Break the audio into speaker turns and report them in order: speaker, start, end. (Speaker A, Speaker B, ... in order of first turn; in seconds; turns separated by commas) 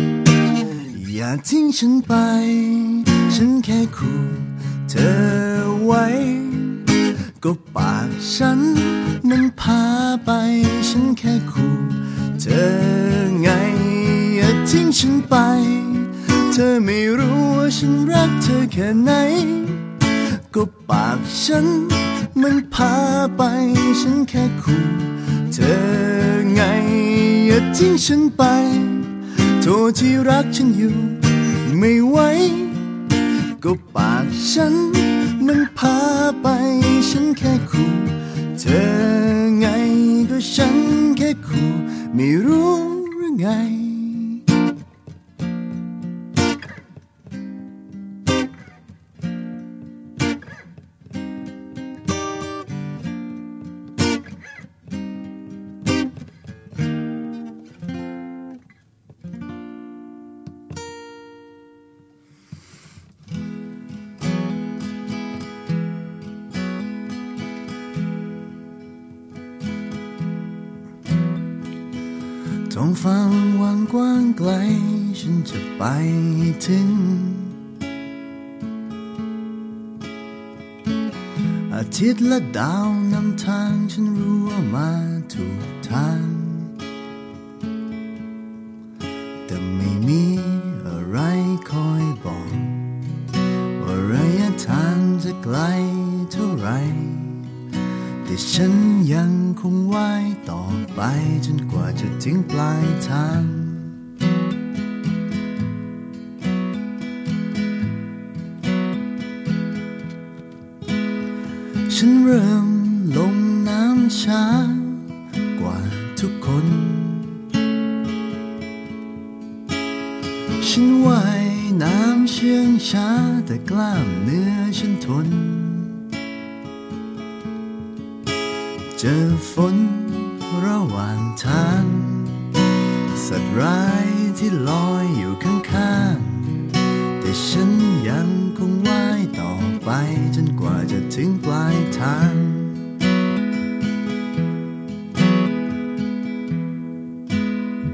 Speaker A: 0.7-44.4, Speaker A: 72.7-77.6, Speaker A: 81.7-86.7, Speaker A: 89.5-97.5, Speaker A: 98.2-104.0, Speaker A: 111.9-117.4, Speaker A: 120.6-126.1, Speaker A: 128.9-143.0